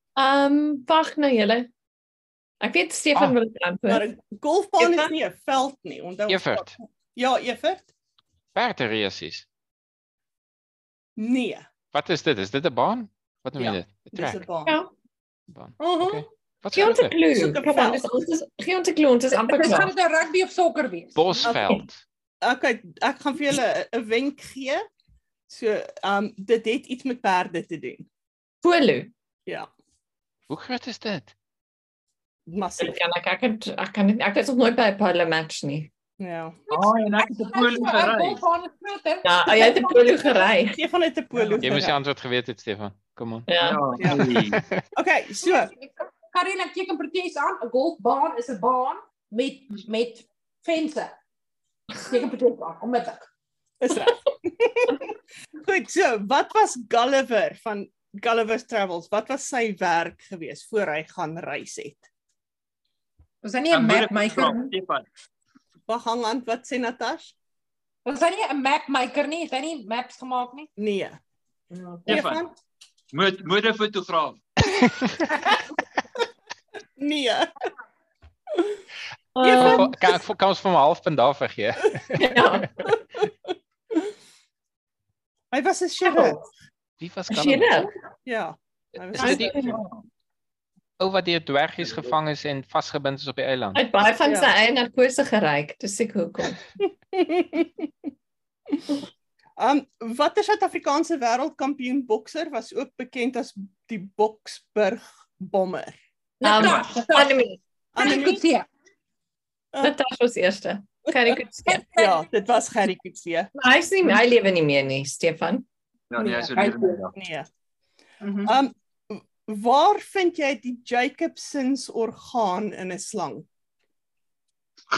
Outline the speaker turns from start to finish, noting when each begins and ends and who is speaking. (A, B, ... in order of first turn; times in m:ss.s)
0:00.2-0:01.7 A
0:02.6-0:04.1 A
0:03.9-0:07.9 B
0:04.8-0:05.1 A
0:06.3-0:06.7 C
0:08.5-0:09.4 C
0:11.2-0:11.6 B
0:11.9-0:14.4 C
0:13.6-0:14.7 B
0:14.6-0:14.9 A
0:15.5-0:17.2 C
0:15.8-0:16.2 B
0:16.7-0:19.9 A
0:17.3-0:18.1 B
0:19.4-0:21.2 D
0:21.2-0:22.0 C
0:22.4-0:24.8 B
0:25.5-0:28.1 B
0:28.6-0:29.1 A
0:30.5-0:31.3 C
0:32.4-0:32.9 B
0:32.8-0:35.9 A
0:36.2-0:36.6 B
0:36.7-0:38.4 E
0:37.1-0:40.4 D
0:39.2-0:40.8 A
0:40.7-0:42.0 B
0:41.6-0:43.5 C
0:43.5-0:43.9 A
0:43.6-0:44.6 E
0:44.0-0:44.8 C
0:44.9-0:45.7 B
0:45.5-0:51.2 D
0:52.0-0:53.3 D
0:53.8-1:02.0 B
1:03.4-1:04.7 D
1:03.7-1:05.0 E
1:05.9-1:07.3 B
1:08.0-1:10.7 D
1:10.8-1:11.2 B
1:11.7-1:12.4 A
1:12.1-1:12.4 E
1:12.1-1:12.5 B
1:13.1-1:14.4 E
1:17.0-1:17.5 B
1:19.3-1:19.9 A
1:19.4-1:20.1 B
1:19.6-1:22.6 C
1:22.1-1:22.7 A
1:22.8-1:24.0 B
1:25.5-1:26.4 B
1:27.0-1:27.9 C
1:27.3-1:27.9 A
1:28.2-1:29.8 B
1:29.0-1:29.8 C
1:29.6-1:30.0 E
1:31.0-1:33.8 C
1:33.7-1:36.6 A
1:34.2-1:34.5 B
1:36.8-1:37.9 B
1:39.6-1:46.0 B
1:46.4-1:47.4 D
1:46.4-1:47.6 A
1:47.9-1:48.4 B
1:48.0-1:48.7 D
1:49.8-1:52.1 A
1:51.8-1:53.5 B
1:53.6-1:55.6 A
1:56.1-1:57.1 E
1:56.2-1:56.5 B
1:56.3-1:57.0 D
1:57.1-1:57.5 B
1:58.2-1:58.5 D
1:58.4-2:03.5 B